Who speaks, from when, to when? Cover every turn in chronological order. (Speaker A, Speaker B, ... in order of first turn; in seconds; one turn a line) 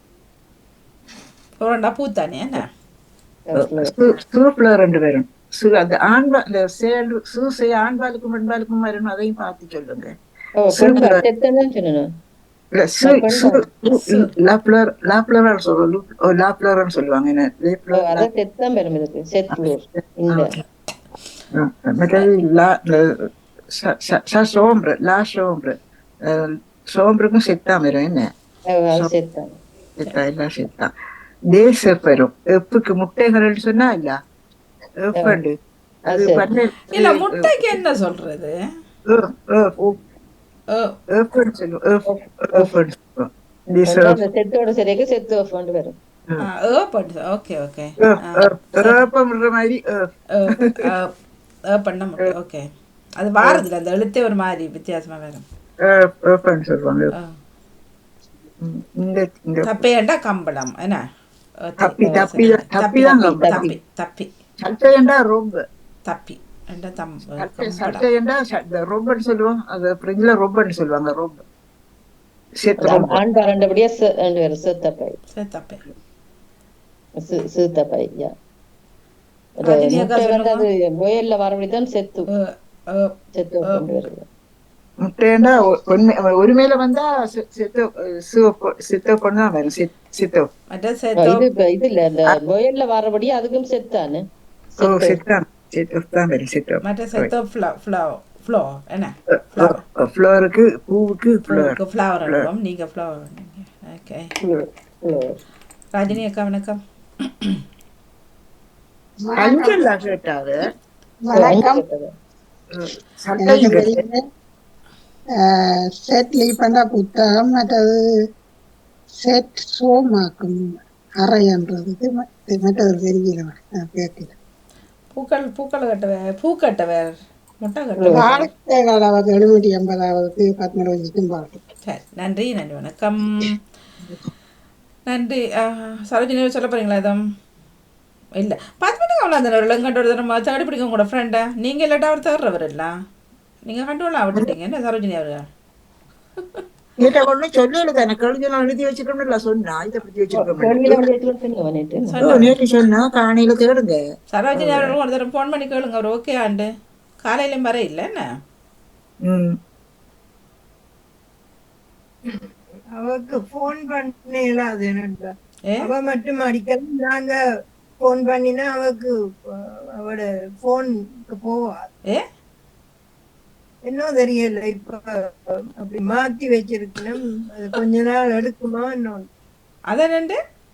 Speaker A: 1.6-2.6
Speaker B: 3.5-3.9
Speaker C: 3.5-10.1
Speaker B: 10.7-12.1
Speaker C: 10.7-11.2
Speaker C: 12.8-18.3
Speaker B: 13.0-13.6
Speaker A: 14.0-14.3
Speaker B: 17.9-20.5
Speaker C: 19.5-20.6
Speaker C: 21.5-28.3
Speaker B: 28.7-29.5
Speaker C: 30.0-30.9
Speaker C: 31.5-34.1
Speaker C: 35.0-35.5
Speaker C: 36.1-37.8
Speaker B: 36.1-36.5
Speaker A: 36.9-38.5
Speaker C: 39.1-40.0
Speaker C: 41.1-44.2
Speaker B: 42.1-42.8
Speaker B: 43.9-46.0
Speaker A: 46.4-49.0
Speaker C: 48.0-50.8
Speaker A: 50.4-51.1
Speaker A: 51.7-52.7
Speaker A: 53.2-55.4
Speaker C: 55.8-57.1
Speaker C: 58.6-59.8
Speaker A: 59.6-61.0
Speaker A: 61.6-64.3
Speaker C: 61.8-63.7
Speaker B: 62.0-62.3
Speaker B: 63.3-63.7
Speaker C: 64.6-65.6
Speaker A: 66.1-68.0
Speaker C: 67.4-71.4
Speaker C: 72.6-73.2
Speaker B: 72.8-75.2
Speaker A: 75.3-75.8
Speaker B: 77.2-78.3
Speaker B: 79.6-82.3
Speaker A: 79.7-80.7
Speaker A: 82.3-83.2
Speaker B: 83.3-84.2
Speaker A: 83.7-84.0
Speaker C: 85.0-90.5
Speaker A: 90.7-91.4
Speaker B: 91.2-94.2
Speaker B: 94.8-95.2
Speaker C: 94.8-97.3
Speaker A: 96.8-99.8
Speaker C: 99.3-102.5
Speaker A: 101.5-104.3
Speaker B: 104.4-105.4
Speaker A: 105.9-106.8
Speaker D: 109.2-110.0
Speaker C: 109.3-110.6
Speaker D: 111.2-111.8
Speaker B: 111.3-112.1
Speaker C: 112.7-114.0
Speaker D: 113.3-114.2
Speaker D: 115.3-118.0
Speaker D: 119.2-124.3
Speaker A: 125.1-128.5
Speaker B: 128.0-128.3
Speaker D: 128.2-131.6
Speaker A: 131.9-133.5
Speaker A: 135.1-137.2
Speaker A: 138.4-142.9
Speaker A: 143.7-145.4
Speaker C: 147.0-151.1
Speaker B: 150.3-152.3
Speaker A: 152.1-152.6
Speaker C: 152.2-154.0
Speaker A: 154.3-156.7
Speaker C: 154.5-155.0
Speaker A: 157.2-158.2
Speaker C: 159.2-159.6
Speaker E: 162.9-167.4
Speaker E: 168.0-171.9
Speaker E: 173.8-179.3
Speaker A: 179.9-180.4